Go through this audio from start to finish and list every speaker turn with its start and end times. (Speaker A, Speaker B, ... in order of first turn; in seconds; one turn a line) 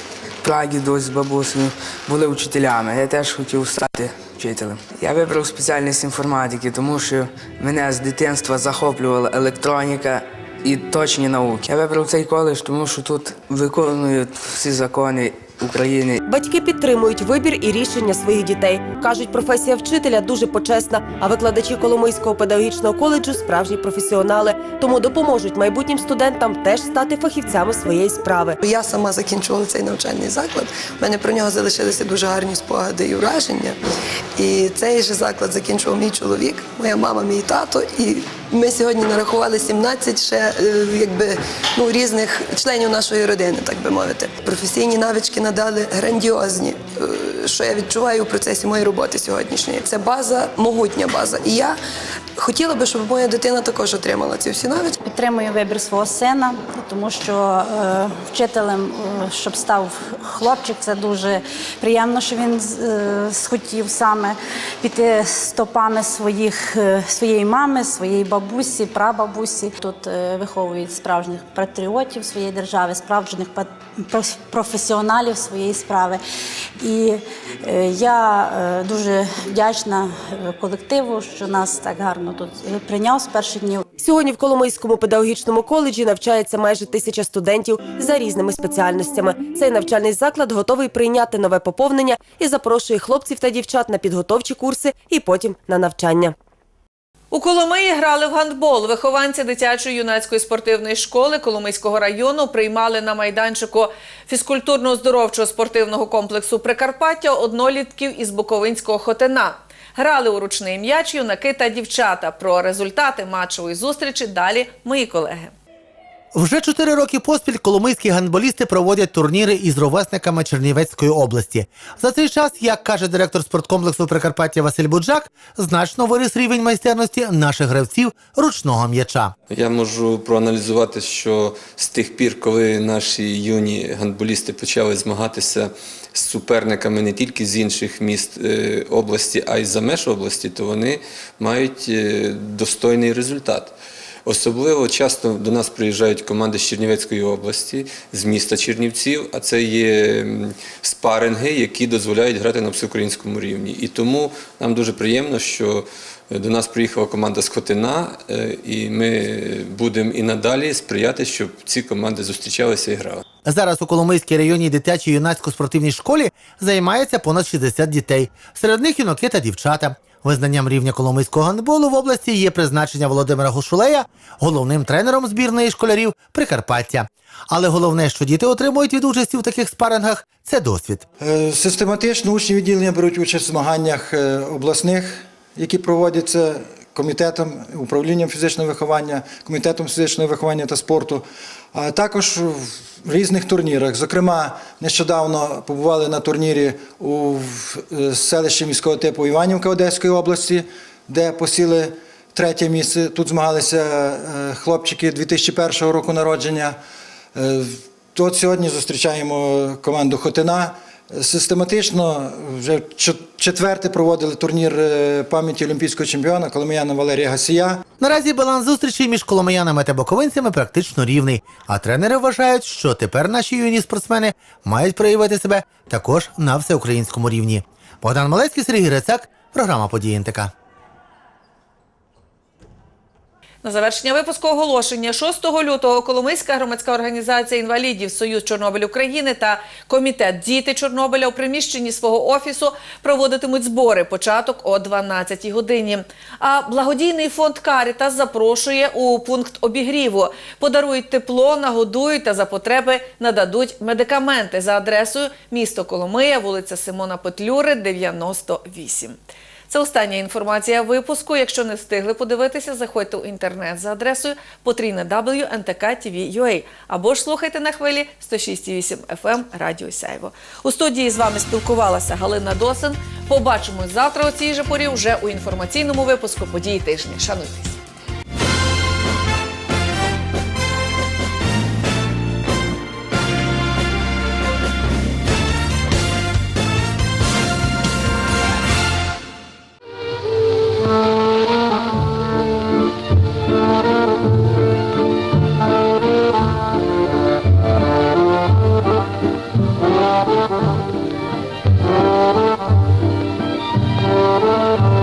Speaker A: 0.4-16.2
Speaker B: 16.3-28.6
Speaker C: 28.6-33.8
Speaker C: 34.4-51.8
Speaker C: 52.4-55.0
Speaker D: 55.0-76.2
Speaker D: 76.8-83.8
Speaker B: 84.0-96.3
Speaker E: 97.3-115.5
Speaker F: 116.3-129.3
Speaker G: 129.5-143.8
Speaker G: 144.3-163.2
Speaker F: 163.4-181.0
Speaker H: 181.2-206.8
Speaker H: 207.3-217.8
Speaker F: 218.0-230.5
Speaker E: 233.6-259.2
Speaker E: 259.7-277.8